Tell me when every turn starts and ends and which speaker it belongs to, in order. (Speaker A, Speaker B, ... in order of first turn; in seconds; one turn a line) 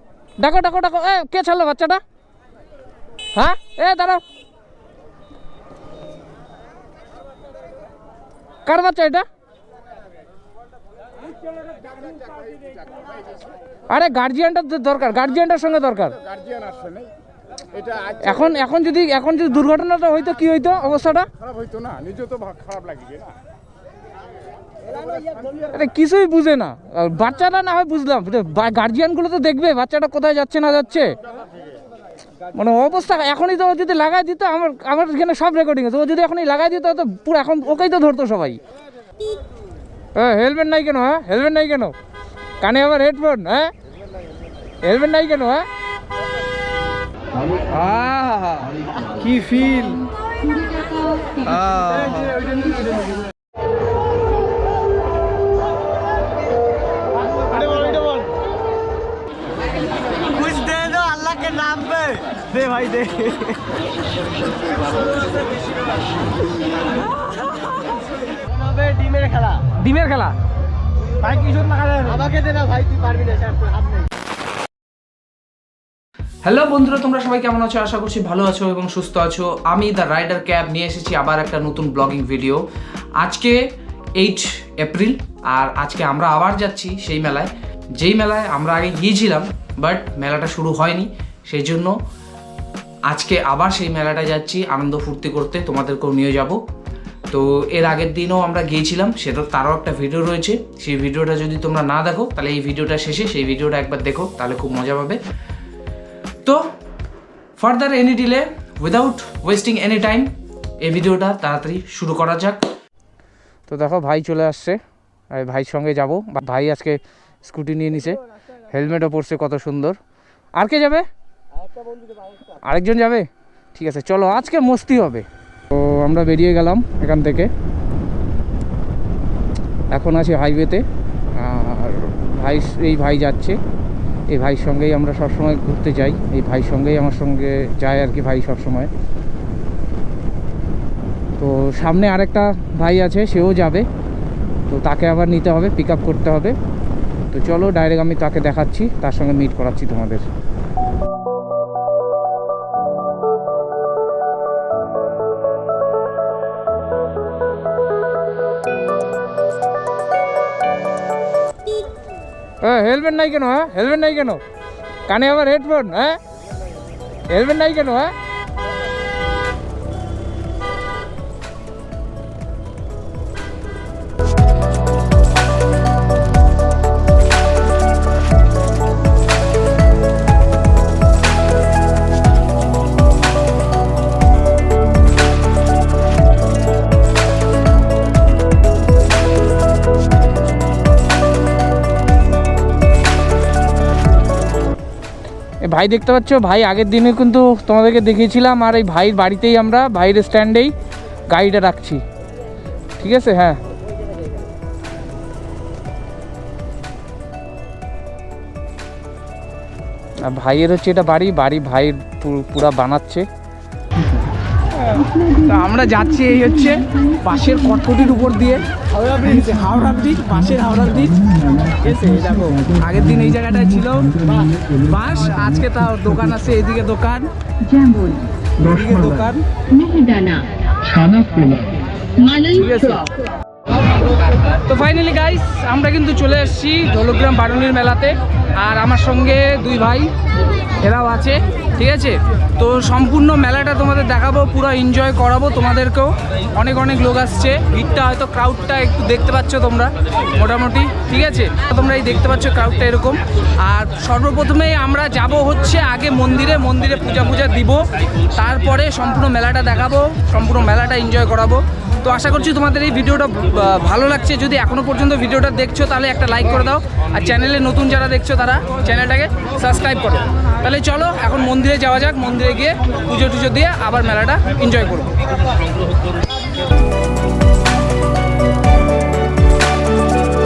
Speaker A: 0.4-2.0
Speaker A: 3.3-4.2
Speaker A: 8.7-9.2
Speaker A: 13.9-16.2
Speaker B: 16.6-17.1
Speaker A: 18.1-21.3
Speaker B: 21.7-23.3
Speaker A: 25.7-31.2
Speaker A: 32.5-38.6
Speaker A: 40.1-41.9
Speaker A: 42.6-43.7
Speaker A: 44.8-45.7
Speaker A: 47.7-50.1
Speaker A: 51.4-52.4
Speaker C: 52.1-52.8
Speaker C: 57.4-58.3
Speaker C: 60.2-63.6
Speaker C: 68.3-69.6
Speaker A: 69.8-70.3
Speaker C: 71.2-74.0
Speaker A: 76.4-82.6
Speaker A: 83.2-91.9
Speaker A: 93.1-96.6
Speaker A: 97.3-105.2
Speaker A: 106.4-106.7
Speaker A: 107.6-112.6
Speaker A: 113.7-114.8
Speaker A: 115.3-120.0
Speaker A: 120.5-121.0
Speaker A: 122.5-127.5
Speaker A: 129.9-133.6
Speaker A: 134.3-138.9
Speaker A: 141.4-143.9
Speaker A: 144.7-146.6
Speaker A: 147.3-150.2
Speaker A: 162.6-164.4
Speaker A: 165.1-166.2
Speaker A: 167.3-168.1
Speaker A: 195.6-200.7
Speaker A: 201.3-202.0
Speaker A: 203.0-203.6
Speaker A: 210.2-213.3
Speaker A: 214.8-218.6
Speaker C: 218.9-219.5
Speaker A: 219.2-230.4
Speaker C: 224.2-224.6
Speaker A: 232.2-233.1
Speaker A: 234.4-240.1
Speaker A: 240.8-275.2